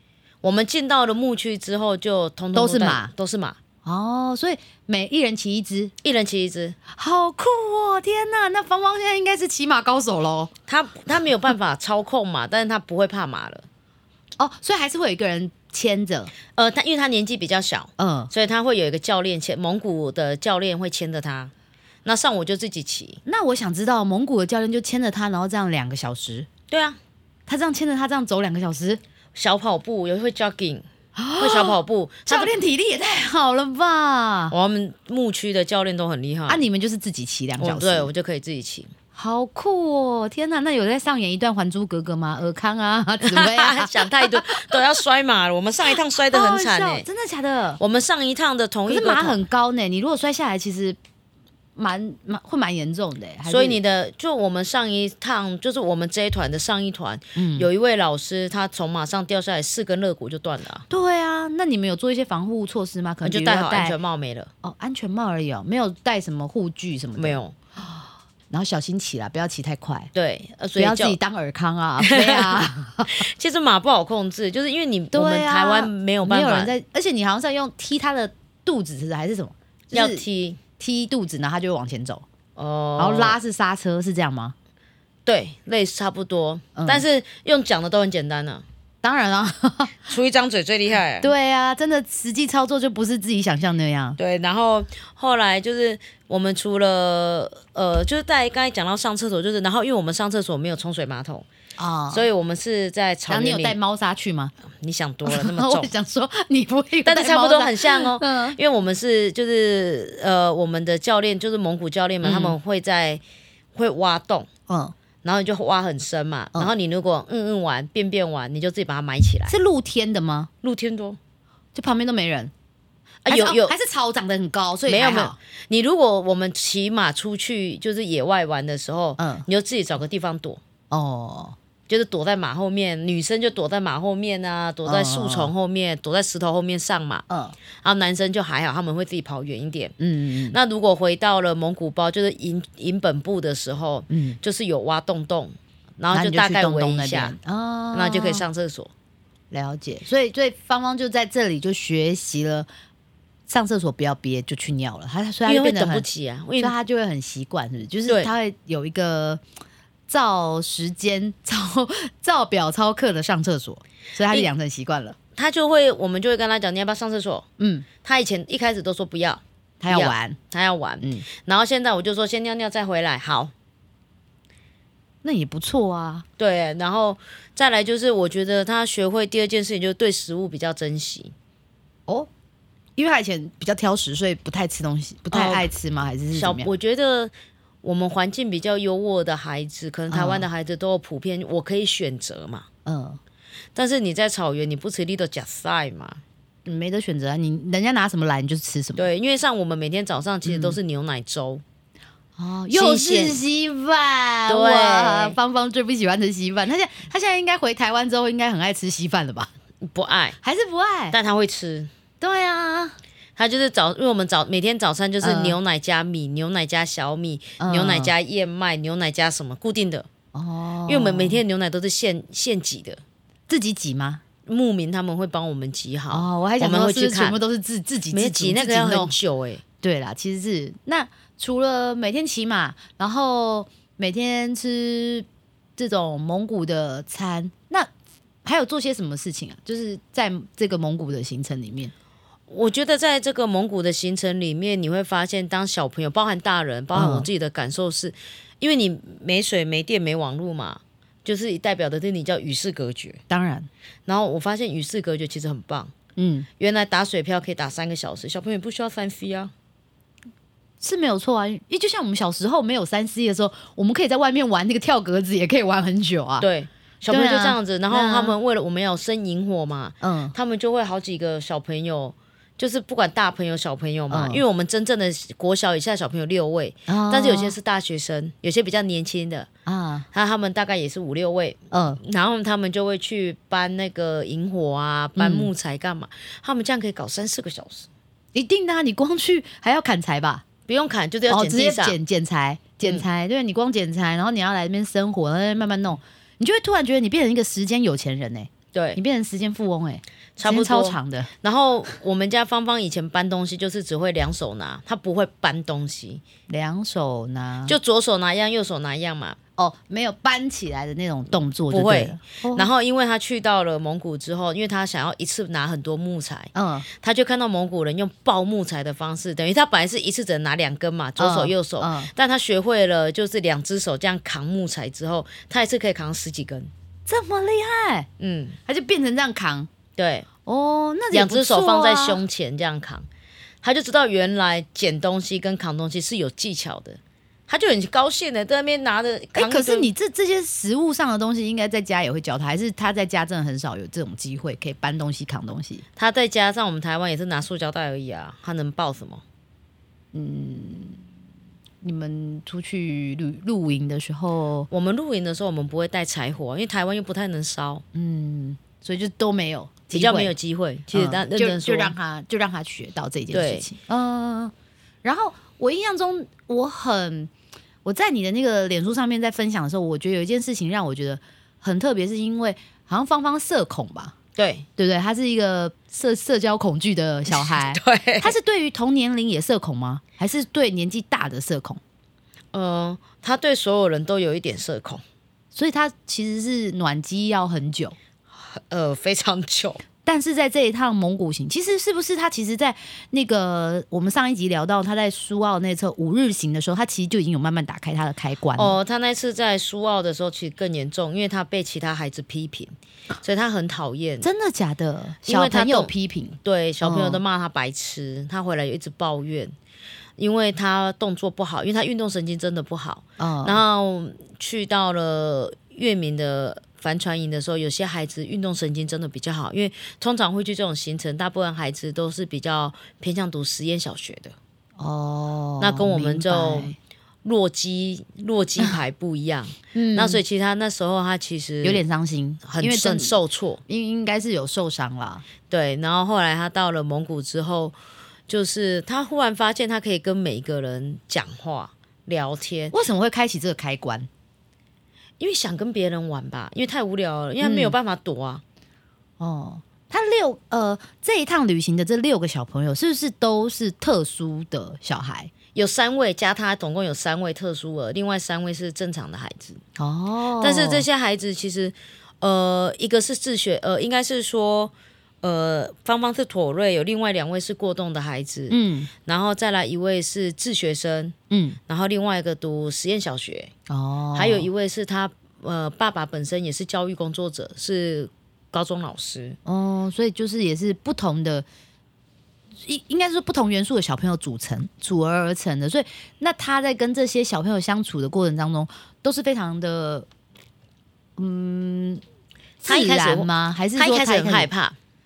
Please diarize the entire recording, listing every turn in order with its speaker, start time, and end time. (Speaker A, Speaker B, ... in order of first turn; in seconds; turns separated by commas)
Speaker A: 0.4-3.6, Speaker B: 2.5-3.1, Speaker B: 3.8-5.9, Speaker A: 6.0-6.8, Speaker B: 6.9-10.5, Speaker A: 10.7-13.7, Speaker B: 14.4-16.3, Speaker A: 16.5-21.5, Speaker B: 18.0-18.3, Speaker A: 22.0-23.2, Speaker B: 23.2-26.5, Speaker A: 26.7-27.0, Speaker B: 27.5-29.0, Speaker A: 29.3-30.8, Speaker B: 31.2-34.5, Speaker A: 31.4-32.5, Speaker A: 34.5-36.6, Speaker B: 36.5-38.1, Speaker A: 37.6-38.9, Speaker B: 39.1-44.8, Speaker A: 43.2-47.0, Speaker B: 46.3-47.8, Speaker A: 47.8-49.4, Speaker B: 48.9-51.0, Speaker B: 51.8-53.8, Speaker A: 53.5-60.8, Speaker B: 57.4-57.7, Speaker B: 60.9-64.0, Speaker A: 63.2-64.5, Speaker B: 64.6-70.1, Speaker A: 67.2-67.5, Speaker A: 70.1-71.2, Speaker B: 70.8-73.2, Speaker A: 72.0-76.7, Speaker B: 75.1-80.2, Speaker A: 79.9-80.6, Speaker B: 80.8-82.2, Speaker A: 82.5-83.4, Speaker B: 83.0-84.5, Speaker A: 85.2-88.6, Speaker B: 86.7-87.0, Speaker B: 89.0-90.0, Speaker A: 90.1-91.3, Speaker B: 91.2-94.2, Speaker A: 94.2-101.5, Speaker B: 101.8-102.2, Speaker A: 102.1-103.8, Speaker B: 103.3-104.5, Speaker A: 104.7-105.9, Speaker B: 105.2-108.6, Speaker A: 107.0-113.2, Speaker B: 112.2-112.5, Speaker A: 113.7-114.5, Speaker B: 114.7-114.9, Speaker A: 115.2-119.5, Speaker B: 119.5-120.5, Speaker A: 120.6-121.2, Speaker B: 121.7-122.5, Speaker A: 123.2-123.7, Speaker B: 123.3-125.3, Speaker A: 124.9-130.6, Speaker B: 129.2-129.4, Speaker B: 130.9-131.6, Speaker A: 131.9-137.2, Speaker B: 134.8-135.5, Speaker B: 137.3-137.6, Speaker A: 137.8-139.9, Speaker B: 140.0-140.6, Speaker A: 140.5-147.3, Speaker B: 144.1-144.4, Speaker B: 146.1-148.4, Speaker A: 147.9-148.9, Speaker B: 149.5-152.7, Speaker B: 153.5-156.0, Speaker A: 155.4-156.7, Speaker B: 156.6-159.4, Speaker B: 160.1-165.2, Speaker A: 165.3-167.4, Speaker B: 167.6-167.8, Speaker A: 168.0-173.5, Speaker B: 169.8-170.4, Speaker B: 171.0-171.3, Speaker B: 175.2-176.2, Speaker A: 176.4-181.3, Speaker B: 183.0-186.7, Speaker A: 185.3-185.7, Speaker A: 186.3-192.7, Speaker B: 190.1-190.4, Speaker B: 192.8-193.2, Speaker A: 193.7-196.2, Speaker B: 196.7-199.1, Speaker A: 198.9-201.6, Speaker B: 200.4-200.8, Speaker B: 202.4-209.5, Speaker A: 202.7-203.4, Speaker A: 204.5-205.4, Speaker A: 209.8-210.4, Speaker B: 210.4-211.2, Speaker A: 211.1-211.9, Speaker B: 212.2-213.0, Speaker A: 213.4-220.1, Speaker B: 215.2-215.6, Speaker B: 217.6-218.1, Speaker B: 220.3-221.4, Speaker A: 220.9-223.0, Speaker B: 223.5-224.2, Speaker A: 224.4-227.4, Speaker B: 226.1-229.1, Speaker A: 228.1-229.6, Speaker B: 229.8-235.2, Speaker B: 235.8-237.9, Speaker B: 238.4-241.9, Speaker A: 242.5-253.2, Speaker B: 246.9-247.3, Speaker B: 253.3-253.7, Speaker A: 254.1-255.9, Speaker B: 256.2-256.5, Speaker A: 256.6-259.5, Speaker B: 260.8-266.5, Speaker A: 266.4-279.5, Speaker B: 267.1-268.3, Speaker B: 270.0-270.3, Speaker B: 274.1-274.4, Speaker B: 276.9-277.5, Speaker B: 279.6-280.1, Speaker A: 280.1-287.9, Speaker B: 281.7-282.0, Speaker B: 285.2-285.5, Speaker B: 288.3-290.4, Speaker A: 290.7-292.0, Speaker B: 291.3-301.3, Speaker A: 298.7-299.0, Speaker A: 300.4-306.2, Speaker B: 306.5-307.8, Speaker A: 307.6-309.4, Speaker B: 309.6-312.7, Speaker A: 311.7-326.7, Speaker B: 316.5-316.9, Speaker B: 321.2-322.1, Speaker B: 327.1-328.1, Speaker A: 328.2-328.6, Speaker B: 328.6-329.7, Speaker A: 330.0-330.3, Speaker B: 330.4-332.2, Speaker A: 331.1-333.1, Speaker A: 333.6-339.9, Speaker B: 339.3-345.8, Speaker A: 345.9-349.2, Speaker B: 350.1-351.0, Speaker B: 351.8-354.7, Speaker A: 354.7-357.8, Speaker B: 357.9-360.3, Speaker A: 359.9-361.9, Speaker B: 360.9-364.5, Speaker A: 363.3-363.7, Speaker B: 365.0-367.3, Speaker B: 367.8-374.1, Speaker A: 374.4-374.6, Speaker B: 374.8-381.8, Speaker A: 377.3-378.3, Speaker A: 382.5-385.0, Speaker B: 385.5-387.9, Speaker A: 388.5-389.8, Speaker B: 390.1-398.8, Speaker A: 398.6-404.3, Speaker B: 404.2-407.2, Speaker A: 405.2-405.9, Speaker A: 406.4-409.5, Speaker A: 410.2-424.3, Speaker B: 413.2-413.6, Speaker B: 424.8-426.8, Speaker A: 425.6-431.8, Speaker B: 429.7-430.2, Speaker B: 431.6-435.2, Speaker A: 432.4-433.6, Speaker A: 435.5-437.8, Speaker A: 438.3-442.7, Speaker B: 442.7-444.1, Speaker A: 445.2-448.4, Speaker B: 447.4-447.7, Speaker B: 449.2-455.3, Speaker A: 455.5-459.6, Speaker B: 459.8-460.9, Speaker A: 460.4-471.1, Speaker B: 468.5-468.9, Speaker B: 471.3-471.6, Speaker A: 471.7-473.5, Speaker B: 473.7-474.5, Speaker A: 474.1-479.4, Speaker B: 479.4-481.4, Speaker B: 482.6-490.1, Speaker B: 491.2-492.0, Speaker B: 492.6-494.5, Speaker A: 492.6-494.8